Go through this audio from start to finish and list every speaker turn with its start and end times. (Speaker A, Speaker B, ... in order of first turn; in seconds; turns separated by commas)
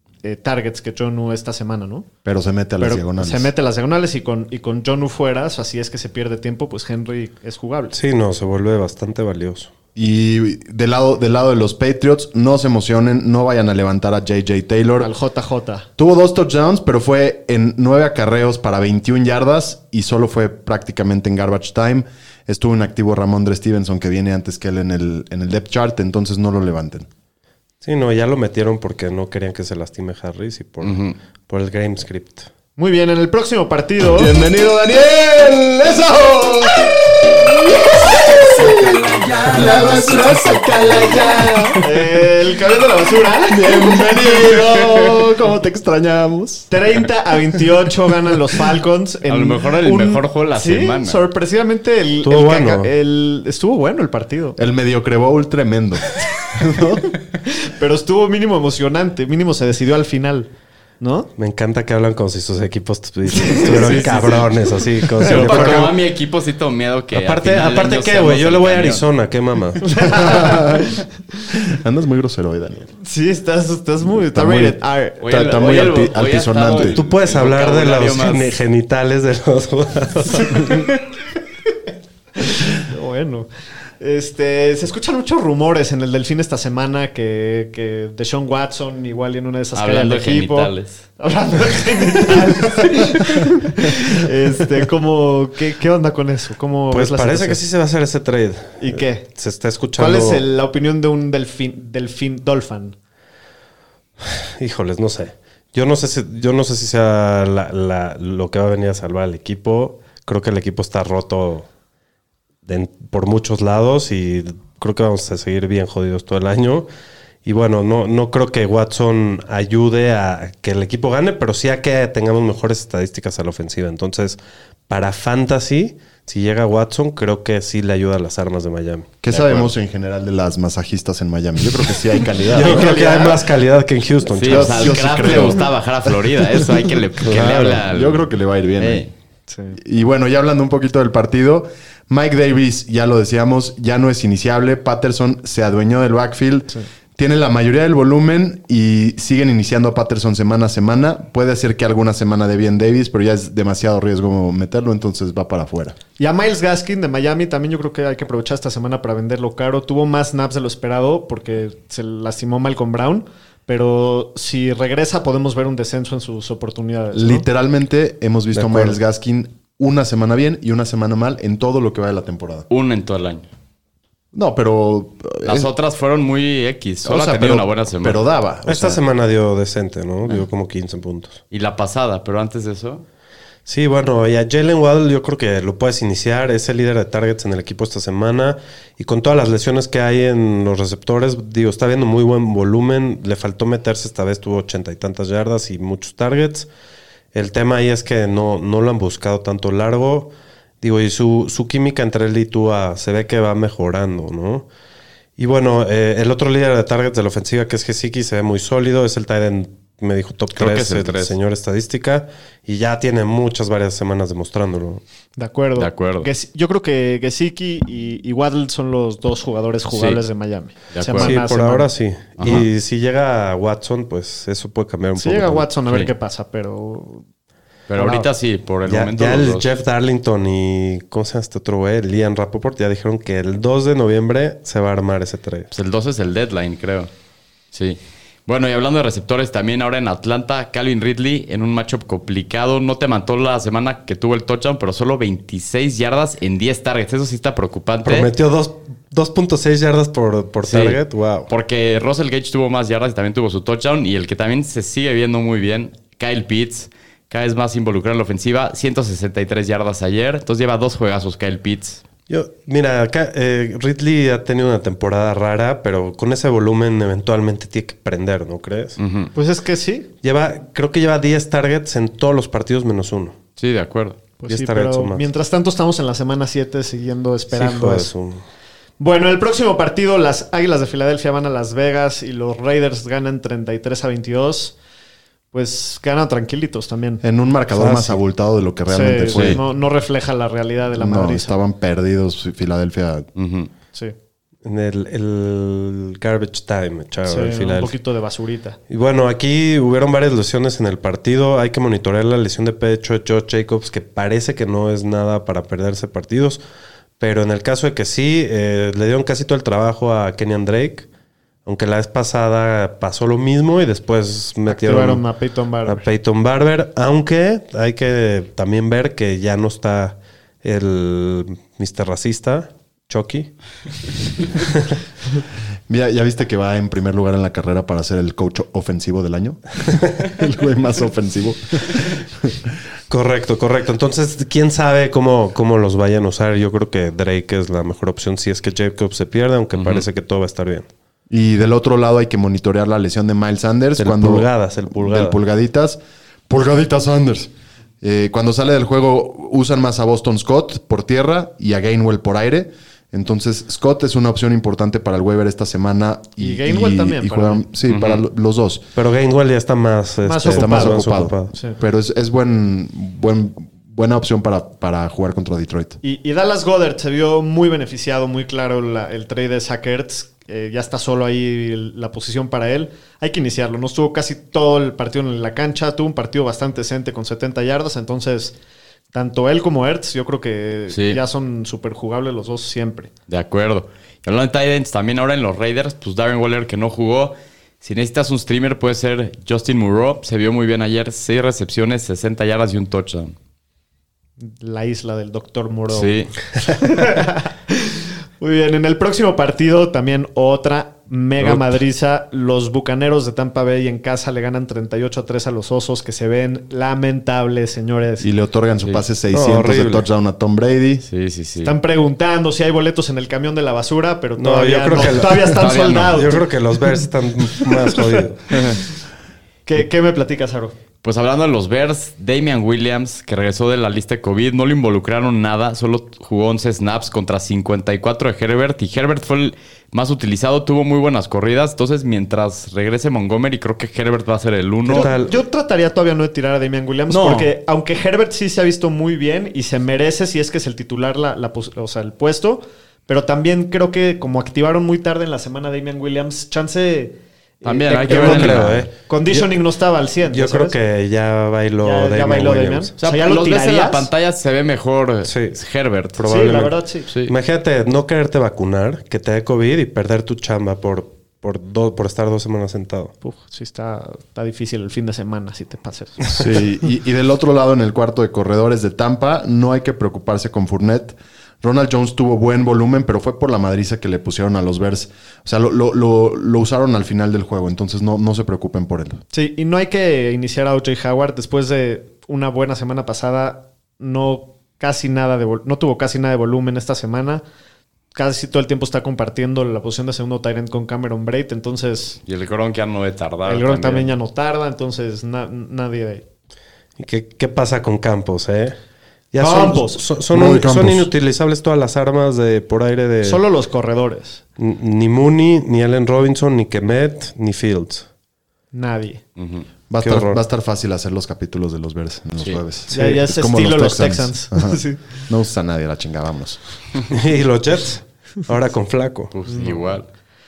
Speaker A: 0.2-2.1, Speaker B: 2.2-3.5, Speaker A: 2.8-7.9, Speaker C: 7.9-9.7, Speaker B: 9.9-15.1, Speaker A: 15.0-15.9, Speaker B: 16.0-27.1, Speaker C: 27.8-32.5, Speaker D: 30.8-31.1, Speaker A: 32.8-34.3, Speaker B: 34.1-37.0, Speaker B: 37.7-42.0, Speaker A: 41.8-44.0, Speaker B: 43.5-46.7, Speaker A: 46.7-54.6, Speaker D: 49.2-51.2, Speaker C: 52.2-52.9, Speaker B: 54.6-57.1, Speaker A: 57.5-60.5, Speaker A: 61.0-61.3, Speaker C: 61.4-65.9, Speaker A: 63.3-64.4, Speaker D: 63.7-64.5, Speaker D: 65.2-69.1, Speaker A: 65.2-65.7, Speaker B: 65.4-65.9, Speaker C: 67.1-69.9, Speaker A: 69.8-71.0, Speaker B: 70.0-70.9, Speaker B: 71.5-72.9, Speaker A: 73.0-75.2, Speaker B: 74.3-77.0, Speaker D: 75.2-78.5, Speaker C: 76.9-80.9, Speaker A: 82.7-83.5, Speaker A: 84.0-97.6, Speaker D: 89.7-91.0, Speaker C: 96.9-100.4, Speaker A: 98.8-99.3, Speaker A: 100.0-102.9, Speaker C: 104.2-111.7, Speaker C: 112.7-116.9, Speaker C: 117.4-129.1, Speaker B: 129.2-133.1, Speaker D: 129.3-129.7, Speaker C: 132.5-135.0, Speaker A: 132.5-133.4, Speaker D: 134.3-139.1, Speaker B: 134.4-135.7, Speaker B: 137.3-139.0, Speaker C: 137.3-137.7, Speaker A: 139.5-139.8, Speaker B: 139.8-155.9, Speaker A: 156.2-167.4, Speaker B: 167.1-172.7, Speaker C: 168.5-168.9, Speaker D: 172.7-173.5, Speaker B: 174.3-175.7, Speaker D: 175.4-178.2, Speaker B: 177.0-179.0, Speaker C: 178.7-181.4, Speaker D: 181.5-183.0, Speaker C: 183.7-196.7, Speaker C: 197.3-200.3, Speaker C: 200.8-204.7, Speaker C: 205.4-215.0, Speaker D: 210.5-211.3, Speaker A: 215.4-221.9, Speaker D: 215.8-216.3, Speaker D: 219.9-220.2, Speaker D: 220.9-221.4, Speaker C: 221.1-225.7, Speaker D: 222.4-222.7, Speaker A: 225.2-227.2, Speaker D: 227.9-229.7, Speaker C: 228.0-228.2, Speaker C: 228.9-235.7, Speaker D: 235.7-237.1, Speaker D: 237.7-248.3, Speaker C: 248.0-251.5, Speaker D: 250.6-262.0, Speaker C: 262.3-269.0, Speaker D: 269.0-269.3, Speaker A: 269.3-270.1, Speaker C: 270.2-273.4, Speaker D: 273.6-274.2, Speaker A: 274.4-278.1, Speaker C: 274.5-275.2, Speaker C: 277.5-278.4, Speaker A: 279.0-284.7, Speaker A: 285.5-287.2, Speaker B: 287.2-289.6, Speaker C: 287.7-288.2, Speaker A: 288.9-291.6, Speaker D: 289.3-289.6, Speaker B: 290.9-293.3, Speaker D: 293.4-293.7, Speaker C: 294.6-297.9, Speaker A: 297.2-298.8, Speaker C: 298.9-306.6, Speaker C: 307.2-311.1, Speaker C: 311.6-315.2, Speaker A: 314.7-316.0, Speaker C: 315.9-323.5, Speaker B: 325.9-332.7, Speaker C: 333.1-340.9, Speaker D: 339.7-340.1, Speaker B: 341.3-358.9, Speaker C: 344.0-345.4, Speaker A: 356.4-357.6, Speaker D: 357.9-358.2, Speaker C: 358.9-361.5, Speaker A: 360.2-361.8, Speaker B: 360.5-366.0, Speaker A: 366.0-378.6, Speaker A: 379.1-383.1, Speaker D: 380.9-381.2, Speaker D: 383.3-393.4, Speaker A: 394.4-396.1, Speaker D: 395.9-396.3, Speaker A: 396.6-408.3, Speaker B: 408.2-411.0, Speaker C: 409.3-410.1, Speaker D: 411.1-411.7, Speaker A: 411.6-416.4, Speaker C: 414.4-418.4, Speaker D: 415.0-416.4, Speaker A: 417.6-418.7, Speaker D: 418.5-418.8, Speaker A: 419.6-420.7, Speaker D: 421.0-435.1, Speaker A: 434.9-450.8, Speaker C: 434.9-435.3, Speaker D: 437.1-437.5, Speaker D: 447.6-448.9, Speaker C: 448.1-449.5, Speaker C: 450.2-452.9, Speaker A: 451.8-454.1, Speaker D: 453.0-456.2, Speaker C: 455.2-455.6, Speaker C: 456.1-456.7, Speaker A: 456.3-457.1, Speaker D: 457.1-457.3, Speaker C: 457.2-463.1, Speaker A: 463.2-466.5, Speaker B: 466.3-479.2, Speaker A: 479.3-487.4, Speaker A: 488.1-492.2, Speaker D: 492.2-494.1, Speaker A: 493.4-496.2, Speaker C: 497.0-498.8, Speaker C: 499.3-503.4, Speaker A: 499.4-500.0, Speaker B: 500.3-501.1, Speaker A: 503.2-504.4, Speaker C: 504.6-508.1, Speaker A: 508.7-509.2, Speaker D: 509.4-509.7, Speaker B: 509.9-516.6, Speaker C: 510.0-510.4, Speaker A: 512.9-515.2, Speaker C: 517.1-519.3, Speaker D: 519.3-520.0, Speaker A: 519.5-519.9